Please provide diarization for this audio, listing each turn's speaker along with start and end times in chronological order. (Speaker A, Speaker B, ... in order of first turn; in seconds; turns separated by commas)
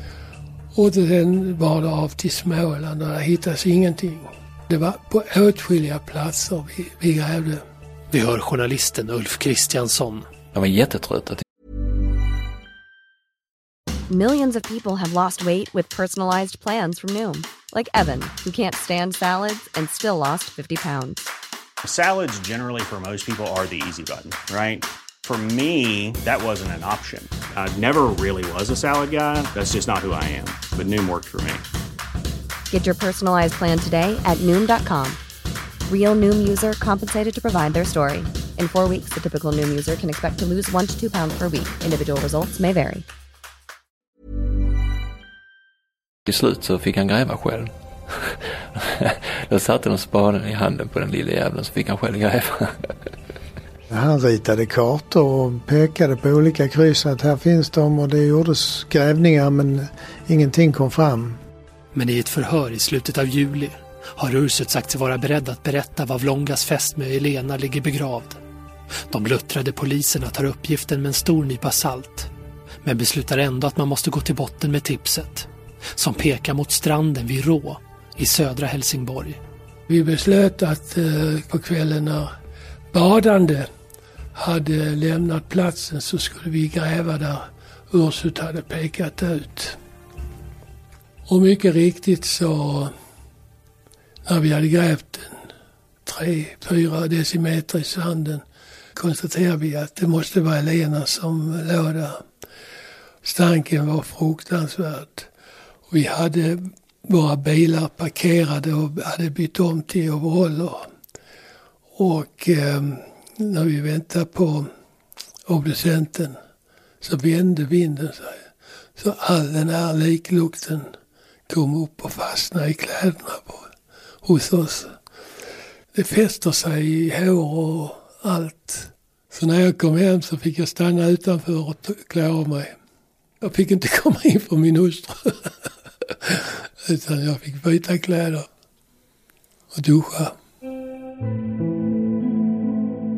Speaker A: 0.7-7.6, Speaker B: 8.1-10.3, Speaker C: 10.5-11.4, Speaker D: 14.1-21.3, Speaker E: 21.8-31.6, Speaker D: 32.7-35.2, Speaker D: 35.9-43.0, Speaker C: 46.3-52.9, Speaker F: 53.9-61.4, Speaker B: 61.9-68.4, Speaker B: 69.1-72.3, Speaker B: 72.8-79.4, Speaker A: 79.9-82.3, Speaker A: 82.9-83.7, Speaker A: 84.3-89.8, Speaker A: 91.3-92.9, Speaker A: 94.3-95.5, Speaker A: 96.0-98.4, Speaker A: 99.0-102.2, Speaker A: 103.2-105.3, Speaker A: 105.9-110.9, Speaker A: 112.0-114.7, Speaker A: 115.5-116.4, Speaker A: 117.0-118.4, Speaker A: 119.0-120.9, Speaker A: 121.5-123.7, Speaker A: 124.2-125.0, Speaker A: 125.9-132.7, Speaker A: 133.4-135.5, Speaker A: 136.1-138.5, Speaker A: 139.7-140.3